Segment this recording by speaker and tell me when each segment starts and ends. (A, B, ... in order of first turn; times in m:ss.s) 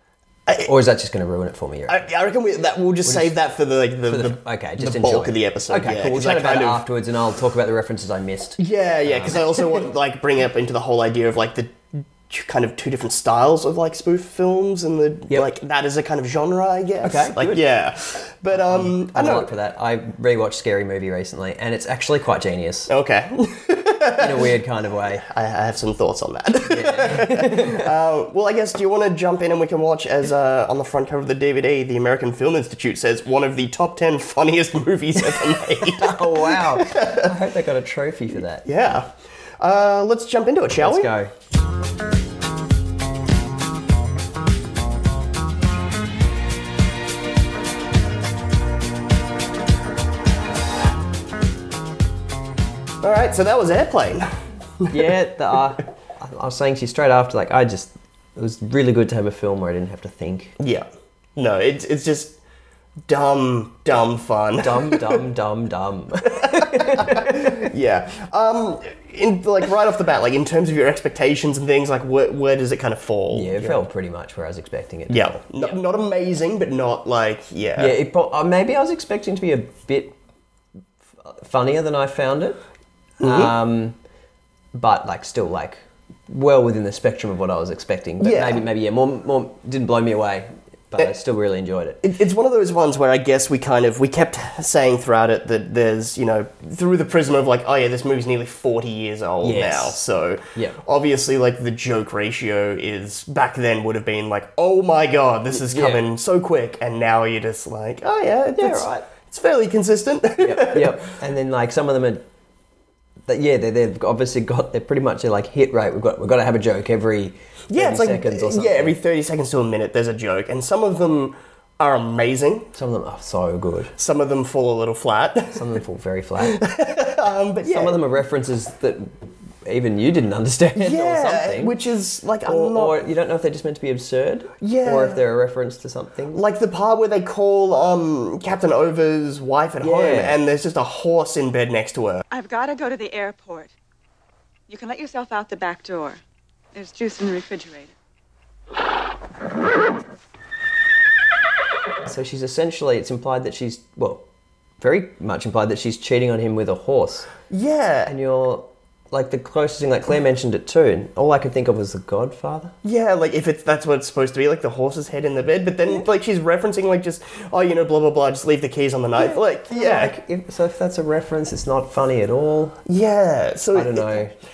0:00.6-0:02.0 A
0:01.9-0:06.8 B
0:03.1-0:03.4 A
0:04.0-0:09.8 A
0:08.6-0:19.5 B
0:17.0-0:17.7 A
0:18.5-0:22.9 A
0:22.9-0:24.5 B
0:24.2-0:25.2 A
0:25.2-0:37.3 B
0:26.7-0:27.9 A
0:35.8-0:38.6 A
0:38.6-0:41.1 B
0:40.8-0:41.3 A
0:53.0-0:54.3 B
0:54.9-1:00.6 A
1:00.6-1:02.4 B
1:03.1-1:05.2 B
1:04.6-1:07.7 A
1:06.2-1:13.8 B
1:13.3-1:15.8 A
1:15.1-1:18.0 B
1:17.8-1:20.2 A
1:21.3-1:22.6 A
1:23.2-1:23.6 B
1:23.2-1:24.0 A
1:24.7-1:32.0 A
1:28.2-1:28.6 B
1:32.0-1:51.0 B
1:39.4-1:40.0 A
1:40.5-1:40.8 A
1:45.5-1:46.1 A
1:48.6-1:49.1 A
1:50.4-1:52.2 A
1:53.3-1:59.0 A
1:57.7-2:02.7 B
2:02.7-2:03.9 A
2:04.0-2:05.6 B
2:05.5-2:06.6 A
2:06.4-2:08.0 B
2:07.6-2:09.1 A
2:09.6-2:11.8 A
2:10.8-2:13.1 B
2:12.4-2:16.4 A
2:14.6-2:15.2 B
2:16.3-2:22.2 B
2:19.8-2:20.4 A
2:22.3-2:23.7 C
2:24.7-2:26.2 C
2:26.7-2:27.9 C
2:32.0-2:34.2 A
2:34.8-2:37.3 A
2:37.5-2:38.1 B
2:38.1-2:42.7 A
2:42.8-2:50.2 B
2:49.2-2:52.8 A
2:52.9-2:54.3 B
2:53.7-2:54.4 A